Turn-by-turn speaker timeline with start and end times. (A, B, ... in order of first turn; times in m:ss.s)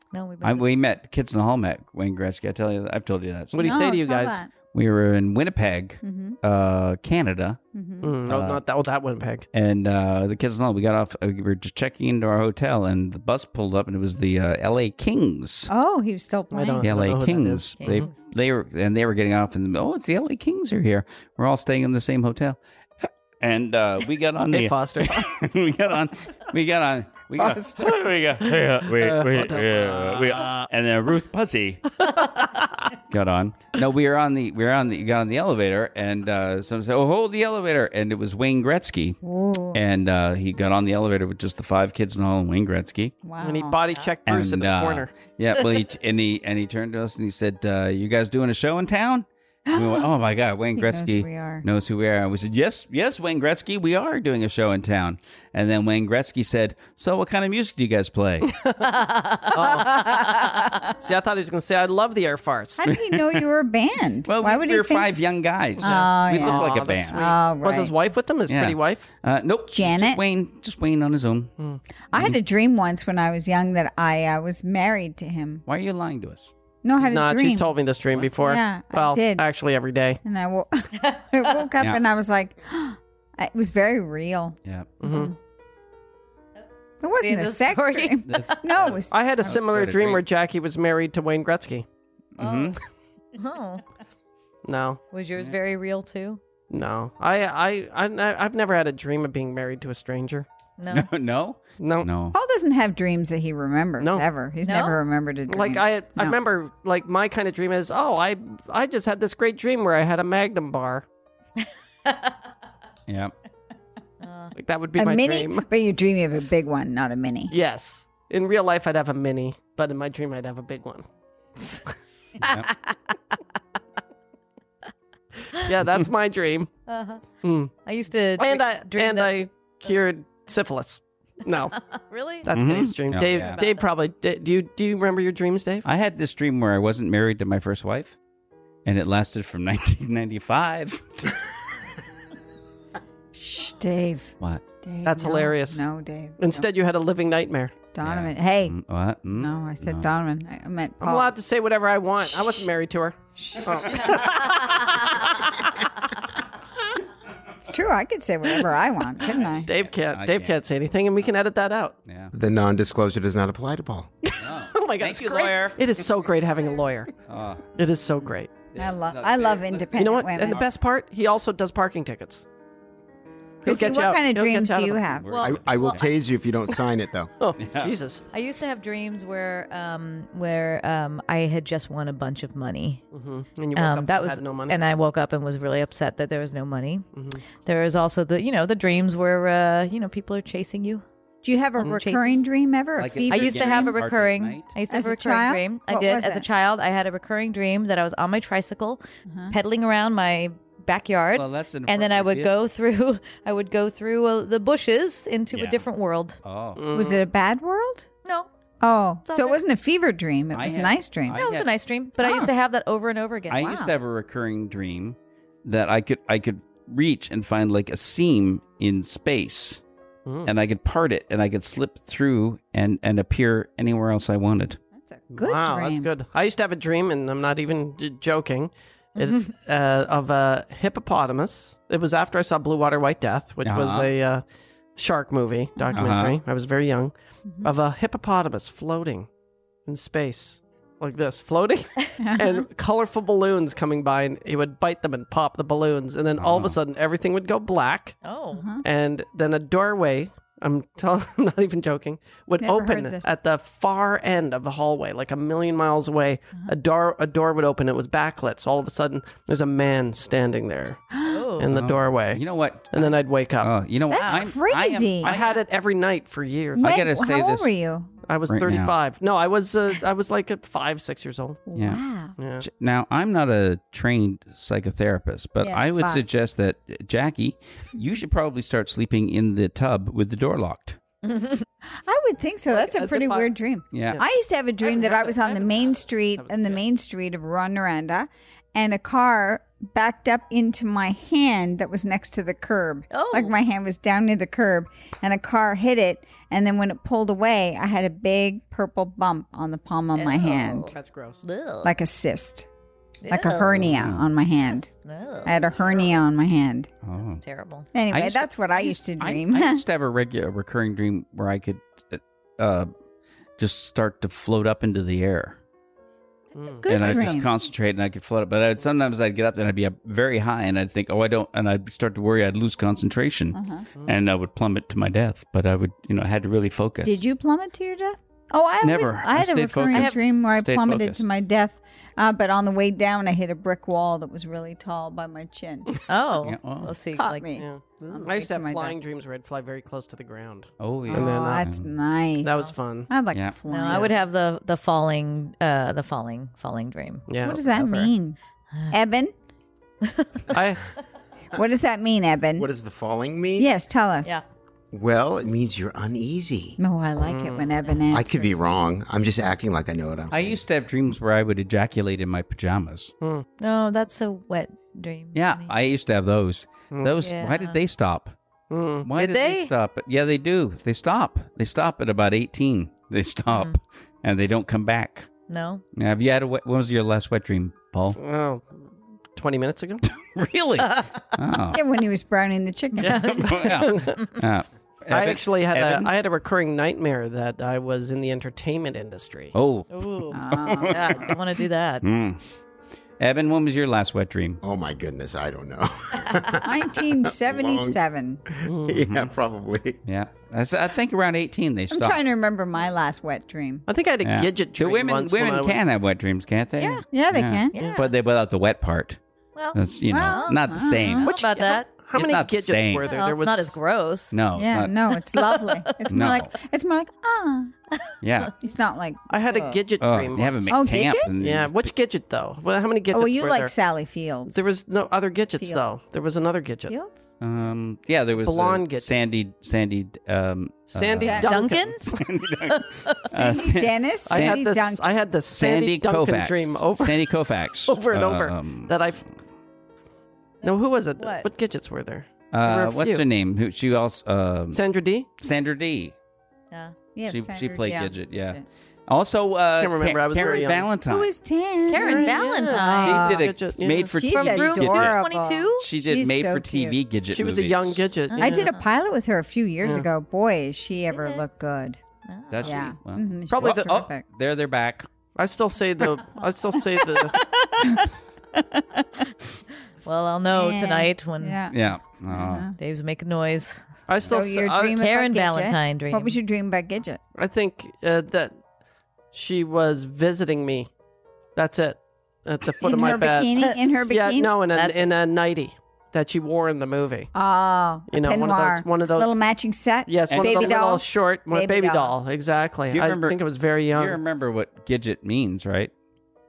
0:00.1-0:00.7 A
0:00.4-0:04.0 B
0:03.5-0:04.4 C
0:03.6-0:04.5 D
0:04.7-0:07.6 B
0:06.0-0:06.4 D
0:07.7-0:08.2 D
0:08.0-0:09.5 C
0:08.3-0:08.6 B
0:09.5-0:15.7 B
0:15.7-0:16.9 D
0:16.5-0:18.1 C
0:16.8-0:31.9 B
0:17.8-0:18.1 A
0:24.5-0:25.4 C
0:27.4-0:28.0 D
0:28.4-0:30.6 C
0:32.1-0:32.8 C
0:33.1-0:39.2 B
0:39.2-0:39.8 D
0:39.7-0:43.2 B
0:43.2-0:43.8 D
0:43.4-0:45.1 C
0:44.3-0:58.6 B
0:49.7-0:50.1 D
0:50.8-0:51.6 D
0:58.8-1:00.0 A
0:59.5-1:02.8 C
0:59.8-1:00.9 D
1:02.8-1:05.2 D
1:02.9-1:03.5 B
1:04.2-1:07.2 B
1:05.8-1:07.9 D
1:05.8-1:09.0 C
1:08.5-1:11.5 B
1:09.7-1:10.2 D
1:12.1-1:15.6 D
1:15.7-1:16.5 B
1:16.8-1:17.7 D
1:17.0-1:20.2 C
1:18.4-1:19.4 D
1:20.2-1:25.4 D
1:24.6-1:25.0 B
1:25.0-1:25.3 C
1:27.0-1:29.1 D
1:27.2-1:28.6 A
1:28.3-1:30.2 B
1:29.1-1:31.9 C
1:32.4-1:32.8 B
1:32.4-1:32.8 A
1:33.3-1:33.8 A
1:34.6-1:35.0 C
1:35.1-1:36.4 A
1:36.7-1:40.5 C
1:40.8-1:41.1 A
1:40.9-1:42.4 B
1:41.8-1:42.1 C
1:42.3-1:46.4 D
1:44.0-1:44.3 C
1:44.6-1:45.0 A
1:45.5-1:51.1 C
1:51.6-1:52.3 A
1:53.1-1:53.3 B
1:54.2-1:54.5 A
1:54.6-1:55.7 C
1:55.0-1:57.5 D
1:57.5-2:01.1 C
2:02.4-2:02.7 B
2:05.6-2:06.7 C
2:06.9-2:07.2 A
2:07.4-2:07.7 C
2:07.8-2:09.4 A
2:08.4-2:11.8 C
2:11.8-2:12.5 A
2:12.4-2:15.9 C
2:12.5-2:13.6 B
2:13.1-2:13.9 A
2:15.8-2:18.2 B
2:18.8-2:21.4 B
2:23.3-2:26.6 D
2:25.0-2:25.8 C
2:26.4-2:27.7 C
2:27.9-2:28.8 D
2:28.0-2:30.1 B
2:29.3-2:31.4 D
2:31.0-2:35.6 C
2:32.2-2:32.7 D
2:33.4-2:34.2 D
2:37.6-2:39.7 D
2:39.3-2:40.6 B
2:39.7-2:42.0 C
2:42.1-2:42.3 B
2:42.3-2:44.1 E
2:44.2-2:47.1 C
2:44.4-2:46.0 B
2:47.3-2:47.7 B
2:47.8-2:48.5 C
2:48.7-2:50.7 B
2:48.8-2:50.6 D
2:49.9-2:52.4 C
2:53.6-2:55.1 C
2:53.6-2:55.4 D
2:55.2-2:56.1 B
2:55.3-2:56.0 A
2:55.4-2:57.3 E
2:57.4-2:58.2 C
2:57.6-2:58.0 B
2:58.3-3:03.1 A
3:03.1-3:04.9 C
3:03.7-3:11.0 A
3:07.2-3:07.4 C
3:11.4-3:14.0 D
3:11.8-3:12.4 A
3:13.0-3:14.7 B
3:13.3-3:26.4 A
3:14.9-3:16.5 D
3:19.3-3:19.6 D
3:21.4-3:22.5 B
3:25.5-3:25.8 B
3:26.4-3:26.9 B
3:26.8-3:27.2 C
3:26.9-3:28.1 D
3:28.8-3:31.4 D
3:29.3-3:29.6 A
3:30.5-3:31.7 B
3:31.3-3:33.7 A
3:32.2-3:32.5 D
3:33.5-3:39.8 B
3:33.6-3:33.9 D
3:40.2-3:40.5 C
3:40.4-3:44.8 B
3:45.0-3:46.1 D
3:45.3-3:54.4 C
3:53.6-3:54.1 B
3:55.0-3:59.3 C
3:55.8-3:56.1 D
3:56.0-3:56.4 B
3:59.9-4:08.2 C
4:02.2-4:02.7 D
4:06.4-4:06.8 B
4:08.2-4:08.7 A
4:08.5-4:08.8 D
4:08.8-4:21.0 C
4:12.6-4:13.3 D
4:21.1-4:21.5 D
4:21.3-4:21.7 A
4:21.6-4:23.7 C
4:21.7-4:25.4 B
4:24.1-4:25.3 D
4:24.1-4:25.6 A
4:25.2-4:26.9 C
4:26.8-4:27.7 B
4:26.8-4:28.1 D
4:28.3-4:31.6 C
4:28.5-4:29.0 B
4:31.7-4:32.4 D
4:31.8-4:32.0 B
4:32.4-4:32.7 C
4:32.6-4:41.0 B
4:35.6-4:36.2 D
4:42.0-5:01.0 D
4:42.7-4:43.5 C
4:43.9-4:44.2 B
4:44.8-4:46.8 C
4:53.1-4:53.6 A
5:00.2-5:01.9 A
5:01.0-5:01.4 C
5:01.8-5:02.7 D
5:03.2-5:03.8 A
5:03.3-5:04.9 D
5:03.8-5:04.3 B
5:05.0-5:06.0 A
5:05.4-5:06.9 D
5:07.0-5:07.4 B
5:07.4-5:07.9 A
5:07.9-5:09.8 D
5:08.1-5:12.9 B
5:13.6-5:15.6 B
5:16.6-5:17.6 D
5:16.6-5:17.4 C
5:16.9-5:27.2 B
5:23.5-5:23.9 D
5:27.0-5:36.0 D
5:28.8-5:31.2 B
5:29.9-5:30.2 A
5:36.1-5:37.5 A
5:36.4-5:36.9 B
5:37.2-5:39.0 D
5:37.6-5:41.7 C
5:40.8-5:41.9 B
5:41.1-5:44.2 D
5:42.4-5:43.1 C
5:43.7-5:47.3 A
5:43.9-5:44.1 C
5:47.3-5:47.6 C
5:47.4-5:48.4 D
5:47.7-5:48.1 B
5:48.9-5:49.3 D
5:50.0-5:50.6 A
5:50.5-5:50.8 C
5:51.5-5:52.7 D
5:52.6-5:53.7 E
5:53.6-5:54.4 D
5:54.9-5:56.8 E
5:56.8-5:58.7 D
5:57.2-5:57.7 C
5:58.1-6:00.6 E
6:00.3-6:03.1 B
6:03.6-6:05.7 A
6:05.4-6:08.4 B
6:07.2-6:07.8 A
6:08.7-6:09.1 C
6:09.0-6:15.3 B
6:09.2-6:09.7 A
6:15.5-6:15.8 A
6:16.0-6:18.2 B
6:18.1-6:20.0 C
6:20.0-6:21.8 B
6:20.9-6:21.2 A
6:21.7-6:23.5 D
6:23.0-6:24.3 A
6:23.0-6:26.1 B
6:23.7-6:24.2 C
6:25.1-6:29.6 C
6:29.5-6:31.4 B
6:29.9-6:32.1 A
6:30.3-6:31.3 D
6:32.0-6:32.4 B
6:33.2-6:34.6 B
6:34.6-6:40.0 E
6:36.6-6:38.4 D
6:38.7-6:39.0 C
6:39.0-6:39.3 B
6:40.1-6:42.2 B
6:41.9-6:43.9 D
6:43.9-6:45.9 C
6:44.2-6:49.2 B
6:46.8-6:47.1 A
6:47.1-6:47.8 D
6:47.7-6:48.1 A
6:49.6-6:51.9 A
6:49.7-6:51.4 B
6:50.1-6:51.3 D
6:51.2-6:53.8 C
6:52.1-6:53.2 B
6:53.1-6:54.4 A
6:54.3-6:54.9 B
6:54.5-6:57.7 D
6:55.3-6:55.9 A
6:56.1-6:56.5 B
6:58.2-6:58.5 B
6:58.6-6:59.8 D
6:59.3-7:00.8 C
7:00.0-7:01.9 B
7:00.7-7:01.3 D
7:01.4-7:03.7 C
7:03.1-7:04.6 D
7:04.5-7:06.9 C
7:06.9-7:07.3 D
7:07.4-7:14.6 B
7:08.4-7:09.1 C
7:10.9-7:12.2 C
7:11.2-7:11.6 D
7:11.4-7:13.2 A
7:13.3-7:15.0 D
7:14.3-7:17.2 C
7:15.5-7:18.9 B
7:17.8-7:19.2 C
7:20.6-7:23.2 C
7:21.2-7:21.5 A
7:22.5-7:24.8 B
7:24.7-7:25.3 C
7:25.4-7:26.2 B
7:27.2-7:28.6 D
7:27.3-7:31.3 B
7:27.8-7:28.1 A
7:29.8-7:30.9 C
7:31.1-7:33.5 D
7:31.9-7:33.2 A
7:32.0-7:34.1 C
7:33.0-7:35.2 B
7:34.1-7:37.0 D
7:34.3-7:35.9 A
7:35.8-7:38.1 B
7:37.3-7:38.7 C
7:38.3-7:38.8 A
7:38.4-7:42.0 D
7:41.1-7:41.4 A
7:42.3-7:42.8 A
7:42.5-7:45.1 B
7:42.6-7:44.2 D
7:43.5-7:44.0 C
7:45.4-7:47.4 C
7:47.3-7:48.0 A
7:50.0-7:51.6 A
7:50.5-7:52.8 D
7:51.7-7:52.7 B
7:52.7-7:53.8 A
7:54.1-7:55.0 C
7:54.3-7:57.2 D
7:54.8-7:56.4 A
7:57.4-7:58.6 C
7:59.3-8:00.9 C
8:01.6-8:07.3 C
8:02.8-8:04.6 D
8:02.8-8:03.8 A
8:04.7-8:05.1 A
8:07.4-8:12.2 D
8:08.1-8:09.4 C
8:10.1-8:14.2 C
8:10.3-8:10.8 B
8:12.9-8:13.4 B
8:13.9-8:15.9 B